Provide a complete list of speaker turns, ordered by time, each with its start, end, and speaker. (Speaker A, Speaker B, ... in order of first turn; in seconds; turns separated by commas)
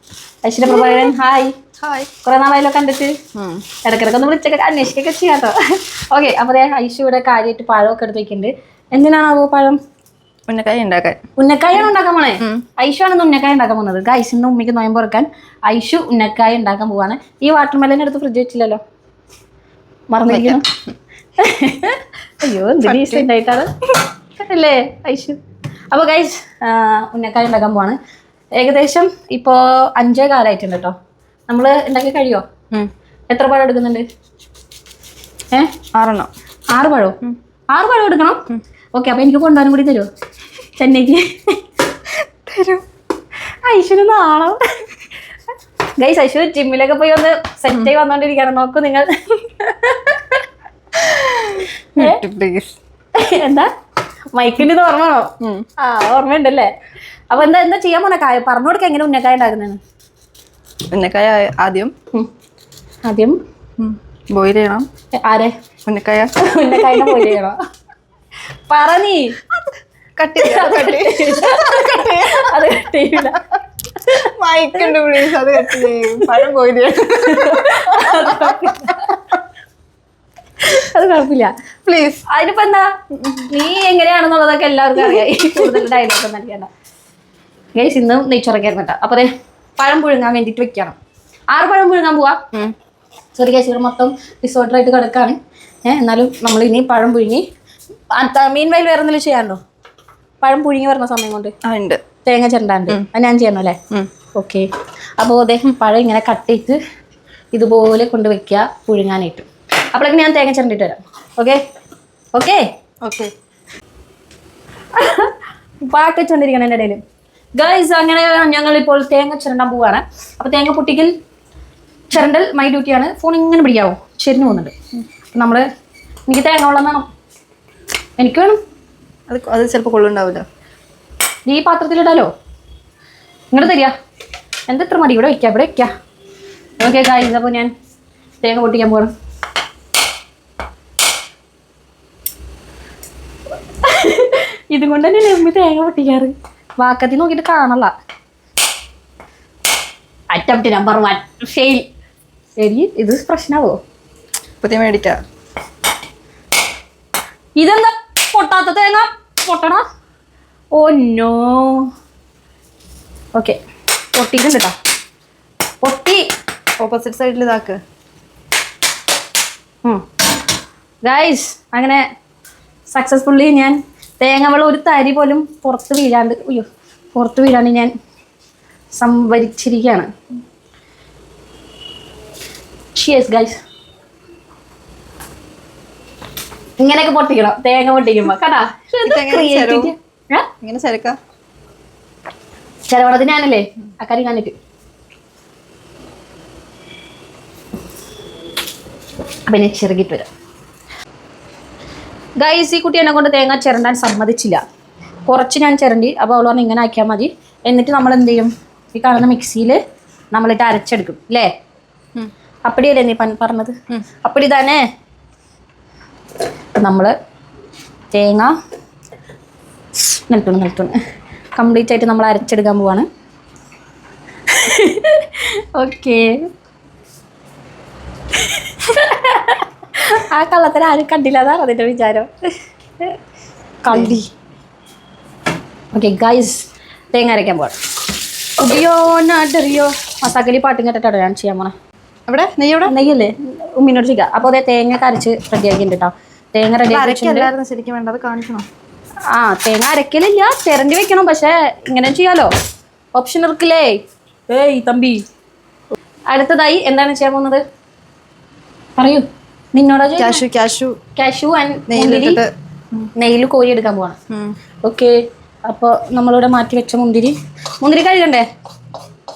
Speaker A: 0.4-1.5, Speaker B: 1.8-2.1, Speaker A: 2.2-3.1, Speaker B: 3.3-3.6, Speaker A: 3.8-9.8, Speaker B: 10.5-11.2, Speaker A: 11.4-18.8, Speaker A: 20.1-20.6, Speaker B: 20.3-20.7, Speaker A: 21.4-23.7, Speaker B: 22.9-23.2, Speaker A: 24.4-25.4, Speaker A: 25.9-28.0, Speaker A: 28.6-30.9, Speaker A: 31.5-32.4, Speaker A: 33.3-34.0, Speaker B: 35.9-36.3, Speaker A: 36.7-37.2, Speaker A: 37.7-40.1, Speaker A: 40.8-41.6, Speaker B: 42.4-42.8, Speaker A: 43.6-44.6, Speaker A: 46.0-50.4, Speaker B: 51.0-52.7, Speaker A: 52.0-52.2, Speaker A: 53.1-53.7, Speaker A: 54.3-56.7, Speaker B: 55.4-55.6, Speaker A: 57.3-59.8, Speaker B: 60.9-61.9, Speaker A: 63.0-63.4, Speaker B: 63.8-64.9, Speaker A: 65.2-65.5, Speaker B: 65.8-67.4, Speaker A: 66.4-67.6, Speaker A: 68.7-69.3, Speaker B: 70.2-72.7, Speaker A: 70.4-73.4, Speaker B: 74.1-79.1, Speaker A: 75.5-76.3, Speaker A: 77.2-79.3, Speaker A: 80.6-81.5, Speaker B: 81.8-82.2, Speaker A: 82.3-82.9, Speaker B: 83.2-83.5, Speaker A: 83.5-86.7, Speaker A: 87.8-91.0, Speaker A: 91.5-92.4, Speaker A: 93.3-97.4, Speaker A: 98.1-99.6, Speaker A: 100.4-101.5, Speaker B: 101.6-102.0, Speaker A: 102.2-103.8, Speaker A: 104.3-104.7, Speaker A: 105.2-106.8, Speaker A: 107.5-111.6, Speaker A: 112.3-112.6, Speaker B: 113.0-113.3, Speaker A: 114.9-117.0, Speaker A: 117.6-121.1, Speaker A: 122.1-124.7, Speaker A: 125.3-125.6, Speaker A: 126.3-127.0, Speaker A: 128.2-128.6, Speaker B: 129.3-130.4, Speaker A: 131.5-132.3, Speaker A: 133.5-133.9, Speaker A: 134.7-135.9, Speaker A: 136.8-137.7, Speaker A: 138.4-139.1, Speaker A: 143.8-147.9, Speaker A: 150.3-151.8, Speaker A: 152.6-153.8, Speaker B: 154.6-155.2, Speaker A: 157.6-159.8, Speaker A: 160.7-161.9, Speaker A: 164.1-164.7, Speaker A: 165.8-166.2, Speaker B: 166.8-167.8, Speaker A: 171.0-172.0, Speaker A: 172.9-177.9, Speaker A: 178.9-180.1, Speaker A: 182.9-183.6, Speaker A: 186.8-190.5, Speaker B: 189.0-189.9, Speaker B: 190.6-191.2, Speaker A: 192.9-194.5, Speaker A: 199.5-200.3, Speaker A: 202.4-204.6, Speaker A: 205.3-209.8, Speaker A: 210.3-211.5, Speaker A: 212.7-214.8, Speaker A: 216.8-217.1, Speaker A: 218.1-218.5, Speaker A: 220.1-220.9, Speaker A: 221.6-223.1, Speaker A: 224.5-226.3, Speaker A: 228.4-232.3, Speaker A: 233.8-234.3, Speaker B: 233.9-234.1, Speaker A: 235.9-237.8, Speaker A: 238.6-241.7, Speaker B: 242.3-242.9, Speaker A: 242.8-247.5, Speaker B: 246.9-248.7, Speaker A: 249.3-252.5, Speaker A: 253.2-254.0, Speaker A: 254.5-255.2, Speaker A: 256.3-257.6, Speaker A: 259.0-260.4, Speaker B: 260.2-261.0, Speaker A: 261.1-262.4, Speaker B: 261.9-263.1, Speaker A: 263.1-264.2, Speaker B: 264.3-264.6, Speaker A: 264.8-265.1, Speaker A: 265.7-268.5